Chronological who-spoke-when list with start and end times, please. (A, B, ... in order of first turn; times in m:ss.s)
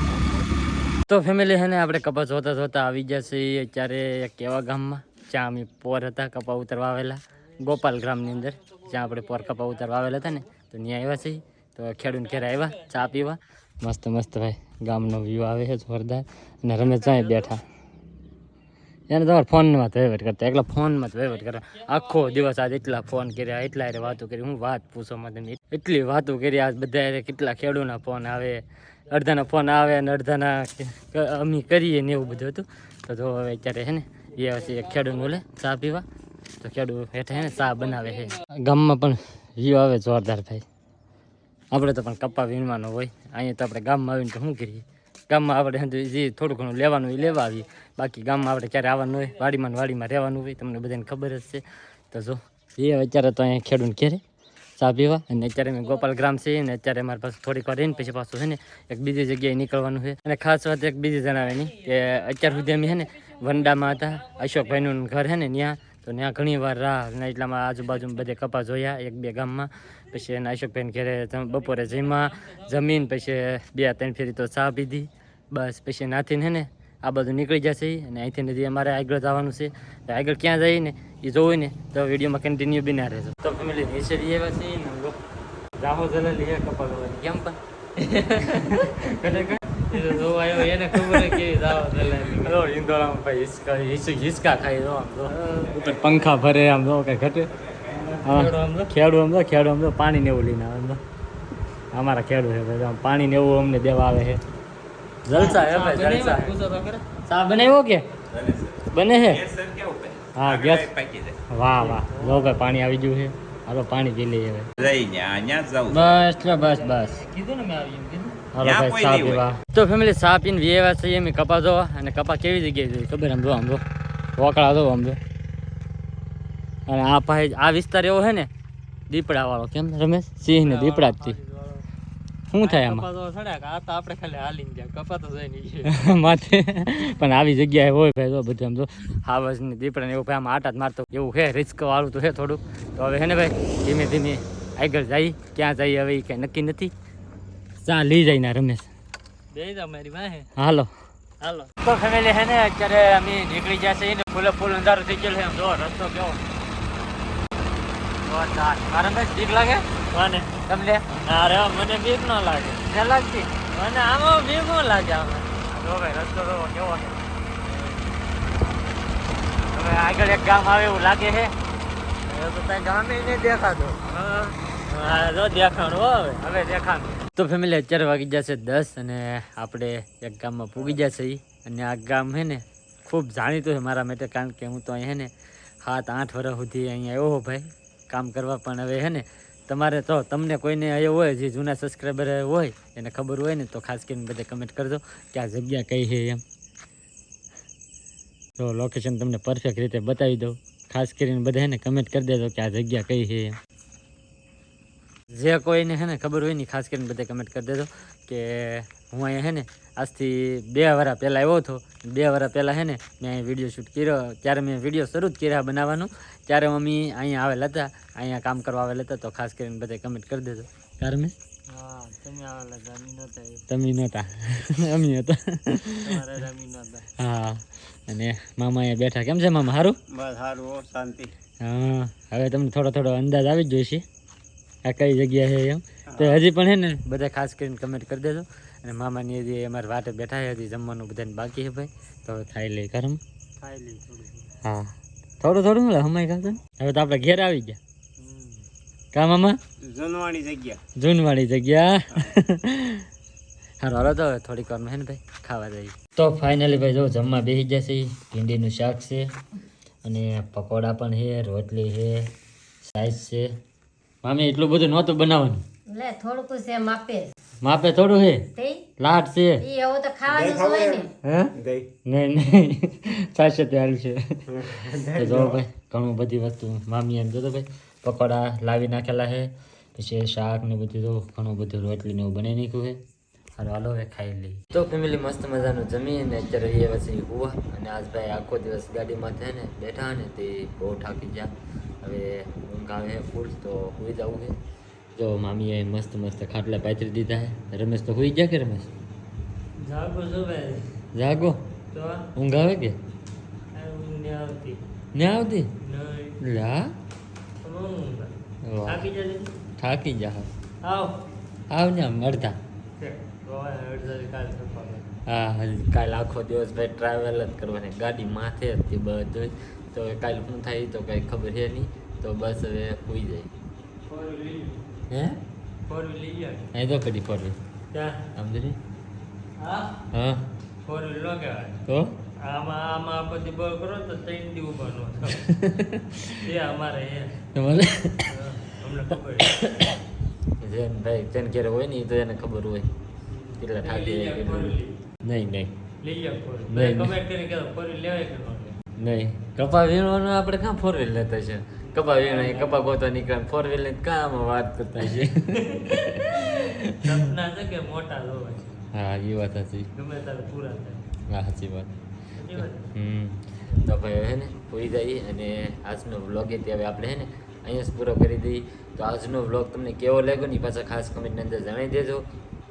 0:01.1-0:17.6 A
0:19.1-0:36.0 A
0:36.6-0:40.6 A
0:41.7-0:54.2 A
0:54.8-1:25.2 A
1:25.8-1:27.6 A
1:28.3-1:30.1 A
1:29.9-1:32.6 B
1:30.8-1:31.6 A
1:32.2-1:37.5 A
1:35.4-1:35.6 B
1:38.1-1:38.9 B
1:38.2-1:41.0 A
1:41.9-1:44.4 A
1:45.2-1:46.5 A
1:45.3-1:47.0 B
1:47.2-1:48.0 A
1:48.3-1:51.4 C
1:48.9-1:49.4 A
1:50.4-1:50.9 A
1:51.5-1:54.7 A
1:51.8-1:52.6 B
1:54.8-1:56.2 C
1:55.9-2:03.8 A
1:58.6-1:59.4 C
2:04.4-2:05.2 A
2:06.9-2:08.5 A
2:09.1-2:11.4 A
2:10.4-2:11.8 B
2:12.5-2:13.1 A
2:12.6-2:15.9 B
2:15.9-2:26.9 A
2:27.8-2:28.9 A
2:29.5-2:30.5 B
2:30.6-2:30.9 A
2:31.4-2:31.7 B
2:31.8-2:36.4 A
2:38.2-2:47.2 A
2:49.7-2:51.5 A
2:52.3-3:05.3 A
3:05.8-3:16.4 A
3:18.6-3:23.6 A
3:25.3-3:41.3 A
3:41.7-3:43.6 B
3:43.7-3:46.2 A
3:46.2-3:47.0 B
3:47.2-3:50.0 A
3:51.6-3:54.0 A
3:54.8-4:03.2 A
4:03.6-4:04.0 B
4:04.6-4:04.9 A
4:05.4-4:07.8 A
4:09.1-4:09.6 A
4:11.0-4:13.0 A
4:13.8-4:19.2 A
4:20.0-4:22.2 A
4:22.8-4:23.4 A
4:24.2-4:25.6 A
4:25.9-4:27.3 D
4:27.6-4:28.4 A
4:28.6-4:28.8 D
4:29.0-4:29.6 A
4:29.6-4:31.1 D
4:31.2-4:31.5 A
4:32.1-4:34.2 A
4:35.1-4:43.0 A
4:43.6-4:51.5 A
4:52.0-4:54.5 A
4:55.2-4:58.9 A
4:59.8-5:00.9 B
5:01.1-5:01.6 A
5:01.9-5:02.3 B
5:02.4-5:03.0 A
5:03.7-5:04.8 B
5:05.1-5:05.7 A
5:05.8-5:06.4 B
5:06.4-5:06.9 A
5:07.6-5:08.3 B
5:08.6-5:09.0 A
5:08.9-5:09.6 B
5:09.8-5:10.5 A
5:10.8-5:11.2 B
5:11.7-5:12.6 A
5:13.0-5:15.0 B
5:15.2-5:23.5 A
5:24.1-5:24.8 B
5:25.1-5:25.3 A
5:25.9-5:26.6 B
5:26.7-5:27.6 A
5:27.9-5:28.2 B
5:28.4-5:28.8 A
5:29.6-5:29.9 B
5:30.1-5:30.4 A
5:30.8-5:31.8 B
5:31.8-5:32.2 A
5:32.4-5:35.5 B
5:35.3-5:36.4 A
5:36.4-5:37.3 B
5:37.5-5:38.3 A
5:38.3-5:39.5 B
5:39.4-5:39.9 A
5:40.6-5:42.9 A
5:43.3-5:45.0 B
5:43.6-5:45.7 A
5:46.0-5:48.8 B
5:46.7-5:47.2 A
5:49.0-5:57.2 A
5:51.9-5:52.8 B
5:55.8-5:56.5 B
5:57.0-5:58.7 B
5:58.9-5:59.9 A
6:00.0-6:01.0 B
6:01.3-6:01.9 A
6:02.4-6:02.8 B
6:02.5-6:12.2 A